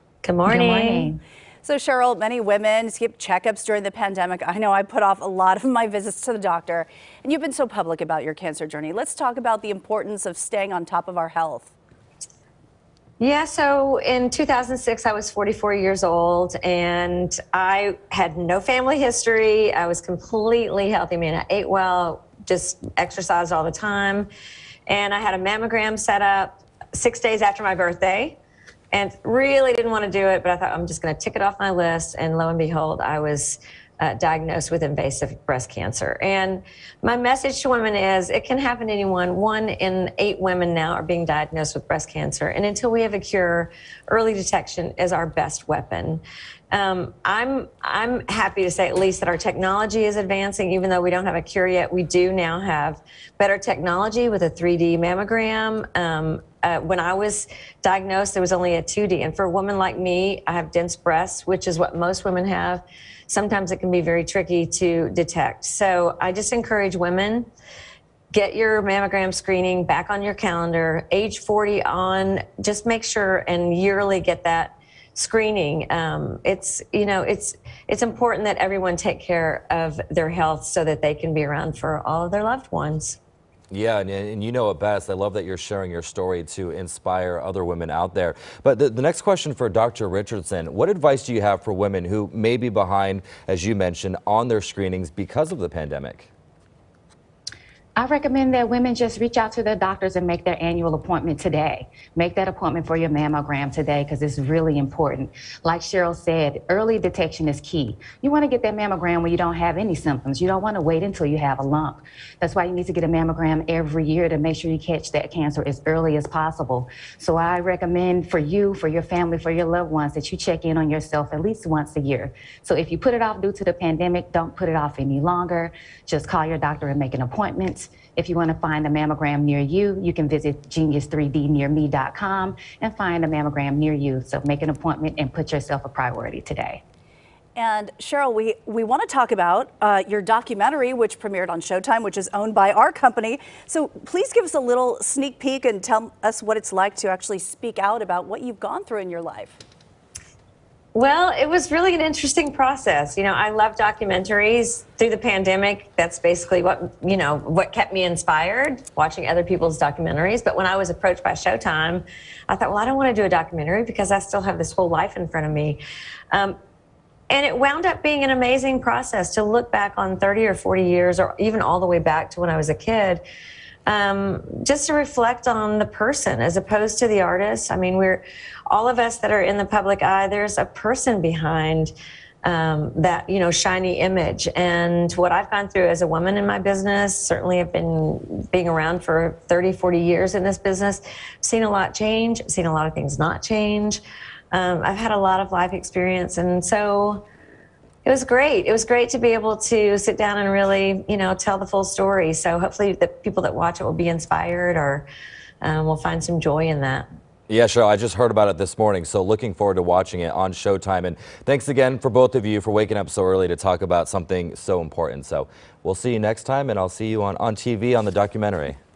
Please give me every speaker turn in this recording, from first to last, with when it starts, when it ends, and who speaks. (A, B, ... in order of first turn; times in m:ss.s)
0:00.2-0:01.1 A
0:00.5-0:01.2 B
0:01.6-0:11.7 C
0:13.2-0:24.3 A
0:24.9-0:28.4 A
0:28.9-1:07.5 A
1:08.3-1:23.2 A
1:23.7-1:36.3 D
1:38.0-2:16.8 B
2:17.6-2:29.6 C
2:30.9-2:45.8 A
2:47.3-2:53.2 A
2:53.9-3:01.9 A
3:02.4-3:17.2 A
3:18.0-3:25.0 A
3:25.6-3:27.1 A
3:27.5-3:38.8 D